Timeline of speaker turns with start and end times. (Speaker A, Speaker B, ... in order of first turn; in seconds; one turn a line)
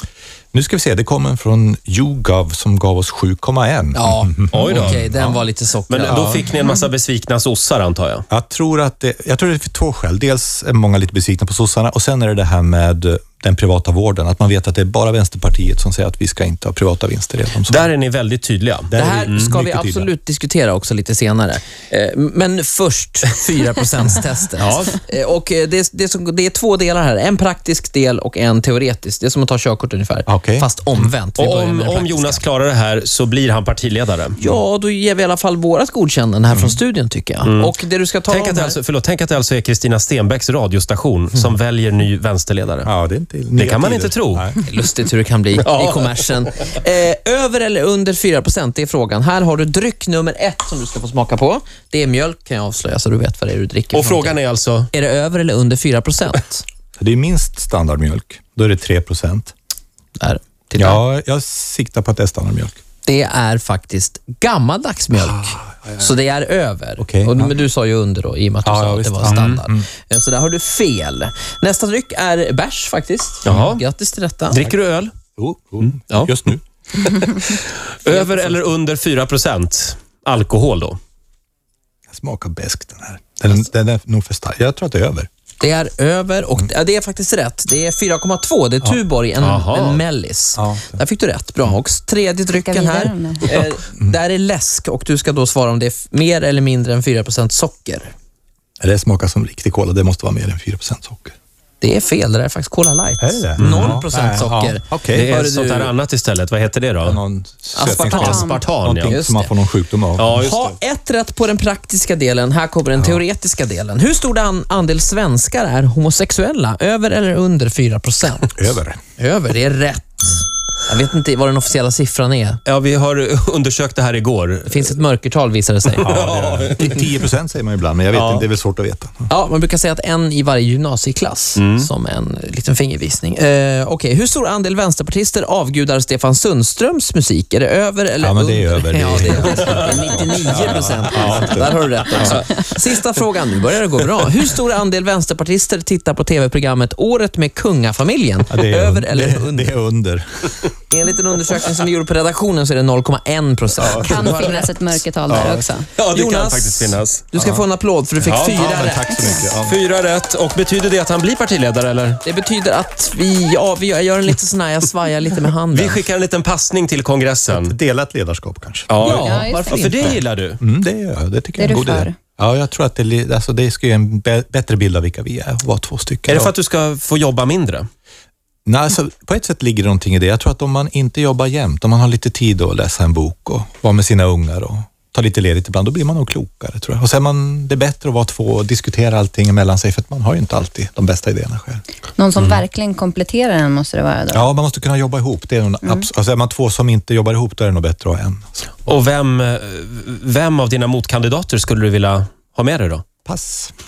Speaker A: 0.5-5.5
Speaker B: 3.9-6.4
Speaker C: 4.5-5.0
Speaker C: 5.9-8.3
Speaker A: 6.0-6.5
Speaker A: 8.3-17.9
Speaker C: 17.6-19.5
Speaker A: 18.9-20.1
Speaker B: 18.9-32.5
Speaker C: 24.6-25.0
Speaker A: 30.3-31.1
Speaker C: 31.4-34.4
Speaker B: 34.4-38.8
Speaker A: 36.5-36.8
Speaker C: 37.5-37.8
Speaker C: 38.3-42.9
Speaker A: 42.9-44.6
Speaker C: 43.6-44.5
Speaker B: 44.6-54.4
Speaker C: 45.6-46.1
Speaker C: 53.9-54.9
Speaker B: 54.9-56.6
Speaker A: 57.0-59.5
Speaker B: 60.2-61.0
Speaker A: 60.8-62.8
Speaker B: 63.0-74.6
Speaker A: 67.0-67.6
Speaker A: 68.6-69.9
Speaker C: 69.2-69.6
Speaker C: 73.5-73.8
Speaker C: 74.5-75.1
Speaker A: 75.4-76.6
Speaker C: 76.0-76.4
Speaker C: 76.9-81.0
Speaker B: 78.0-78.7
Speaker A: 82.1-85.3
Speaker B: 85.6-98.1
Speaker C: 89.4-90.0
Speaker A: 90.6-91.0
Speaker D: 92.6-93.6
Speaker A: 98.8-101.4
Speaker B: 101.8-105.9
Speaker A: 103.2-105.3
Speaker C: 103.6-104.0
Speaker C: 105.1-107.2
Speaker A: 107.0-110.4
Speaker B: 107.7-109.6
Speaker C: 108.1-109.2
Speaker D: 108.1-108.6
Speaker C: 110.2-110.8
Speaker B: 110.2-122.6
Speaker A: 118.6-119.0
Speaker C: 122.7-125.0
Speaker B: 124.7-126.2
Speaker C: 126.0-127.0
Speaker A: 126.0-129.3
Speaker C: 128.1-128.5
Speaker B: 129.3-149.8
Speaker C: 131.6-131.9
Speaker A: 138.2-142.4
Speaker A: 148.5-150.7
Speaker B: 150.9-159.3
Speaker A: 153.8-154.3
Speaker D: 153.9-155.9
Speaker C: 155.3-157.3
Speaker A: 157.3-157.6
Speaker C: 158.2-158.8
Speaker A: 158.5-159.8
Speaker C: 159.6-162.2
Speaker B: 162.2-166.0
Speaker C: 165.7-167.8
Speaker A: 167.5-168.9
Speaker C: 168.9-170.6
Speaker B: 169.0-170.2
Speaker D: 169.2-169.8
Speaker A: 170.6-176.5
Speaker D: 171.6-172.2
Speaker C: 176.3-177.9
Speaker A: 178.7-191.8
Speaker D: 192.2-194.5
Speaker A: 194.3-198.8
Speaker C: 198.9-203.0
Speaker A: 203.3-203.7